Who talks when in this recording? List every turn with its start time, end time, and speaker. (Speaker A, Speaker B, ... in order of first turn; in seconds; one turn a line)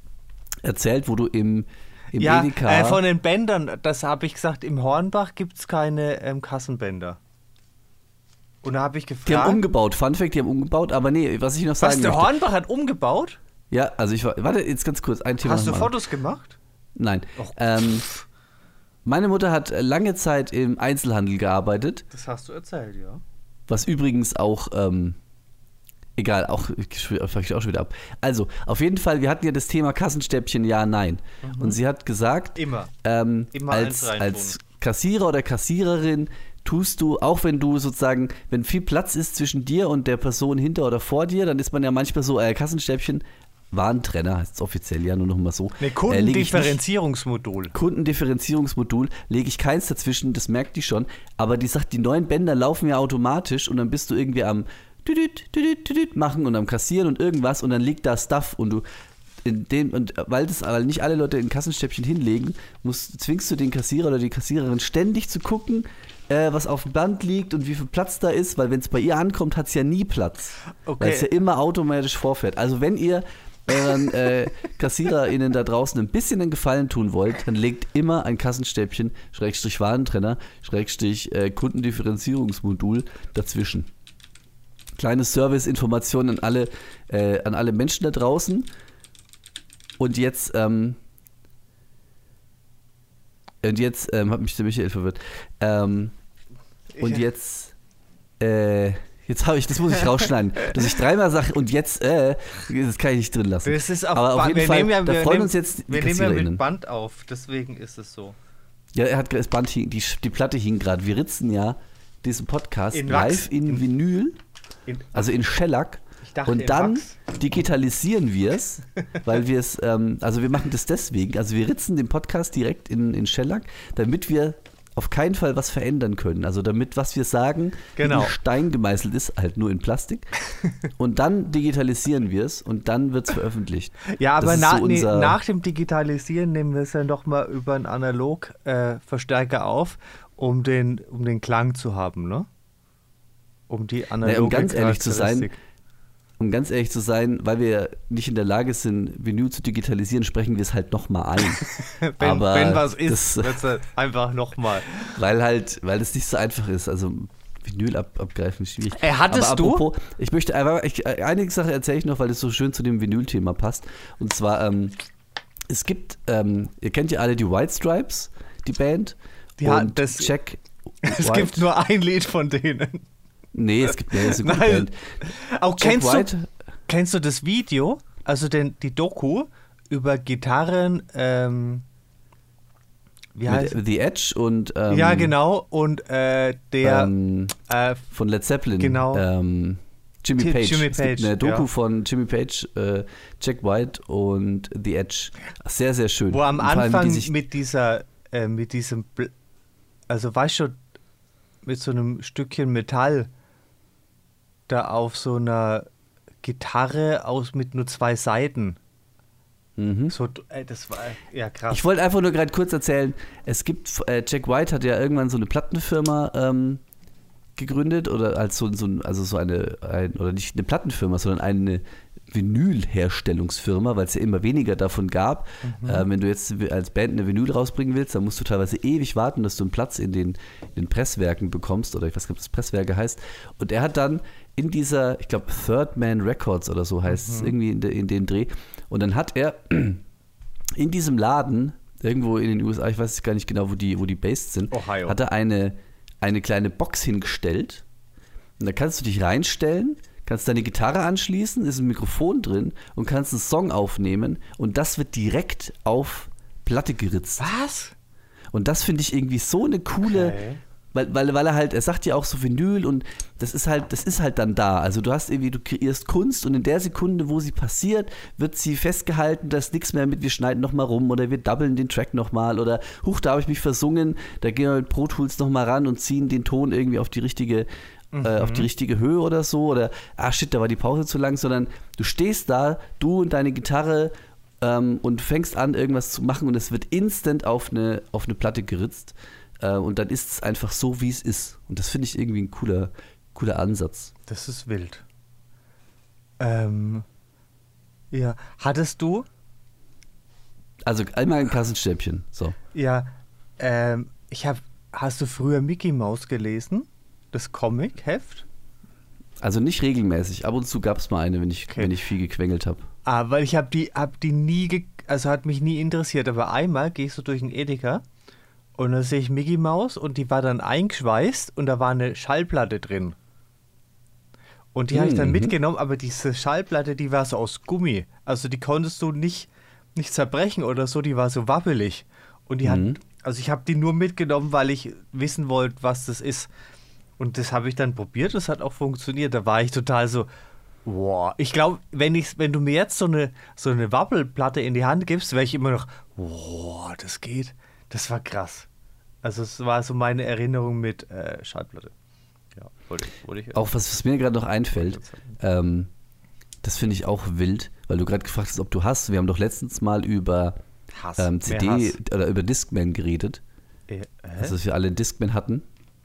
Speaker A: 0.6-3.0
Speaker B: 2.1-7.2
Speaker B: 8.6-9.6
Speaker A: 9.2-12.3
Speaker B: 11.8-13.4
Speaker A: 13.7-15.9
Speaker B: 15.4-16.6
Speaker A: 16.9-18.0
Speaker B: 17.4-18.2
Speaker A: 19.0-22.0
Speaker B: 22.1-23.2
Speaker A: 23.7-25.2
Speaker A: 26.2-46.8
Speaker B: 31.4-31.8
Speaker B: 32.5-32.9
Speaker B: 33.5-34.6
Speaker B: 45.8-47.7
Speaker A: 47.7-58.8
Speaker A: 59.4-83.9
Speaker B: 70.8-71.3
Speaker A: 85.0-88.7
Speaker A: 90.0-91.0
Speaker A: 93.6-96.1
Speaker B: 96.9-97.2
Speaker A: 97.0-97.7
Speaker A: 98.4-106.6
Speaker B: 103.6-108.3
Speaker A: 108.9-114.4
Speaker B: 112.9-113.8
Speaker B: 114.9-115.3
Speaker A: 115.1-130.3
Speaker B: 116.2-117.2
Speaker B: 128.0-128.3
Speaker A: 131.0-135.4
Speaker B: 134.1-142.5
Speaker B: 143.7-145.6
Speaker A: 144.2-145.5
Speaker A: 146.4-151.6
Speaker B: 151.6-155.2
Speaker A: 152.2-153.7
Speaker A: 155.1-165.0
Speaker B: 158.9-159.8
Speaker A: 165.7-171.7
Speaker B: 169.6-170.3
Speaker B: 171.0-173.1
Speaker A: 173.5-175.0
Speaker B: 173.9-176.3
Speaker A: 175.8-176.5
Speaker B: 176.9-181.8
Speaker B: 183.3-183.8
Speaker A: 183.5-185.3
Speaker B: 184.9-187.1
Speaker A: 186.8-187.5
Speaker B: 187.6-188.0
Speaker A: 188.1-197.3
Speaker B: 188.8-189.2
Speaker B: 190.4-191.7
Speaker B: 196.3-199.3
Speaker B: 200.1-200.8
Speaker B: 201.6-203.3
Speaker B: 204.7-205.8
Speaker B: 206.4-208.8
Speaker A: 209.8-210.1
Speaker B: 210.1-211.8
Speaker A: 211.7-216.8
Speaker A: 217.6-240.0
Speaker B: 225.6-226.1
Speaker B: 237.1-237.5
Speaker A: 240.8-247.8
Speaker B: 244.7-245.2
Speaker A: 248.6-257.5
Speaker B: 257.4-257.9
Speaker A: 258.5-260.4
Speaker B: 260.1-260.6
Speaker A: 260.9-277.7
Speaker B: 278.1-278.7
Speaker A: 278.2-294.1
Speaker B: 294.3-295.0
Speaker B: 296.4-297.0
Speaker B: 298.1-299.3
Speaker A: 300.9-302.6
Speaker B: 302.7-308.4
Speaker A: 309.4-312.9
Speaker B: 311.7-311.9
Speaker B: 313.1-318.0
Speaker B: 318.8-323.1
Speaker B: 324.7-336.5
Speaker A: 324.9-325.6
Speaker A: 332.6-333.0
Speaker B: 337.2-340.3
Speaker B: 340.8-348.7
Speaker B: 349.2-351.9
Speaker B: 352.6-353.7
Speaker A: 353.5-355.9
Speaker B: 354.7-355.3
Speaker A: 356.6-360.6
Speaker B: 360.9-362.0
Speaker A: 361.2-363.4
Speaker B: 363.9-364.6
Speaker A: 364.4-365.6